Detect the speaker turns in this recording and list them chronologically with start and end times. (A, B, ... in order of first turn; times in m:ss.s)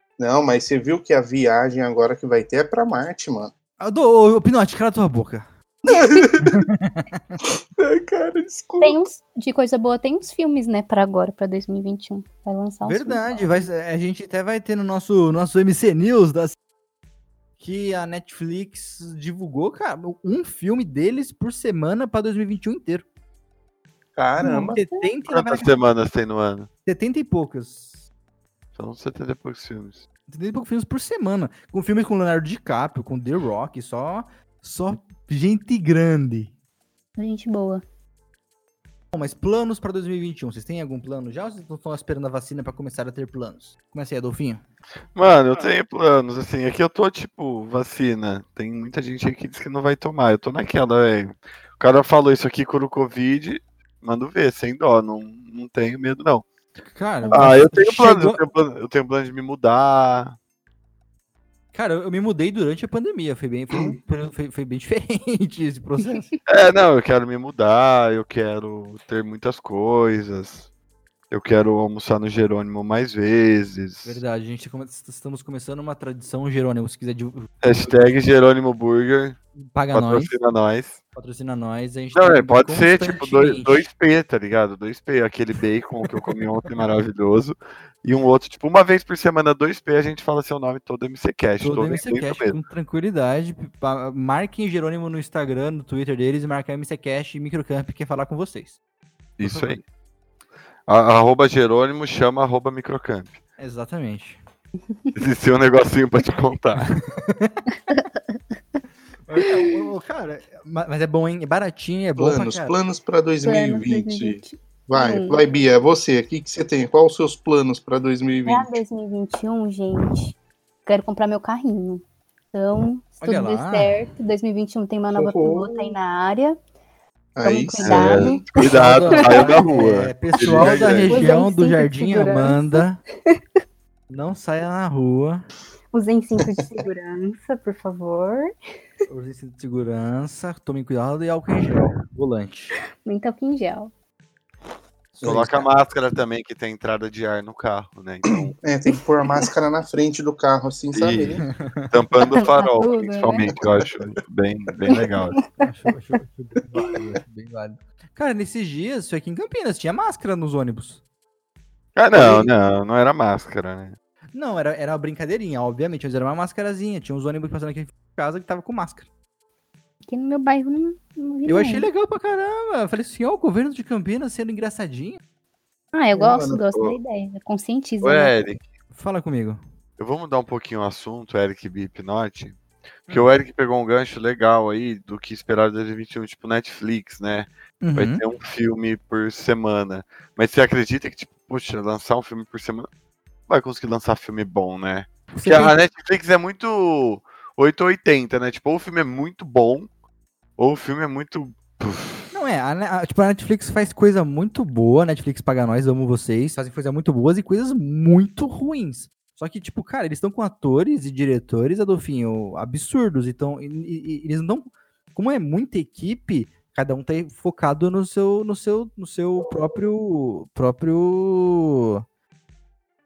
0:00.2-0:03.5 A
0:03.8-0:05.5 B
0:05.9-0:06.6 A
0:06.4-0:07.4 B
0:07.8-0:09.0 A
0:08.8-0:13.6 C
0:12.8-0:16.6 B
0:17.6-0:23.0 B
0:24.2-0:24.8 A
0:24.4-0:25.8 B
0:24.5-0:25.1 C
0:25.3-0:26.7 D
0:26.9-0:28.0 B
0:28.8-0:30.0 D
0:30.3-0:36.5 B
0:37.2-0:37.8 C
0:39.1-0:44.6 B
0:45.2-0:56.5 D
0:56.9-0:58.4 B
0:57.3-1:00.4 D
1:01.7-1:06.3 B
1:03.7-1:04.0 A
1:06.4-1:10.7 D
1:11.3-1:14.2 D
1:14.0-1:18.2 B
1:17.6-1:19.4 D
1:19.6-1:20.3 B
1:19.9-1:21.0 D
1:21.2-1:23.9 B
1:22.1-1:32.6 D
1:31.6-1:38.8 B
1:39.4-1:39.8 D
1:39.4-1:39.8 B
1:40.9-1:43.4 D
1:43.6-1:44.4 B
1:45.2-1:47.0 D
1:47.1-1:47.7 B
1:49.3-1:52.8 B
1:52.2-1:58.7 A
1:53.4-1:55.4 C
1:58.4-2:00.4 C
2:00.9-2:06.6 C
2:03.2-2:04.0 B
2:05.1-2:05.9 A
2:07.4-2:08.5 A
2:07.4-2:09.5 C
2:07.8-2:11.3 D
2:08.6-2:13.0 B
2:10.6-2:13.4 C
2:14.1-2:15.4 B
2:15.9-2:18.5 C
2:19.1-2:22.8 B
2:23.0-2:23.9 C
2:25.2-2:25.7 B
2:25.2-2:25.5 A
2:25.2-2:28.6 D
2:28.5-2:31.5 A
2:30.9-2:35.4 D
2:31.4-2:31.9 B
2:32.3-2:33.5 C
2:33.5-2:33.9 A
2:34.9-2:35.5 C
2:35.6-2:41.0 B
2:42.0-2:44.0 D
2:42.1-2:42.5 B
2:44.3-2:49.1 B
2:50.0-2:51.9 C
2:51.5-2:55.2 B
2:55.9-2:58.3 C
2:56.2-2:56.6 A
2:56.7-2:57.0 D
2:58.0-2:58.6 D
2:58.9-2:59.6 B
3:00.0-3:02.6 D
3:03.1-3:12.9 D
3:07.8-3:08.2 B
3:13.5-3:19.9 D
3:15.3-3:15.8 B
3:20.6-3:22.3 D
3:22.3-3:42.0 B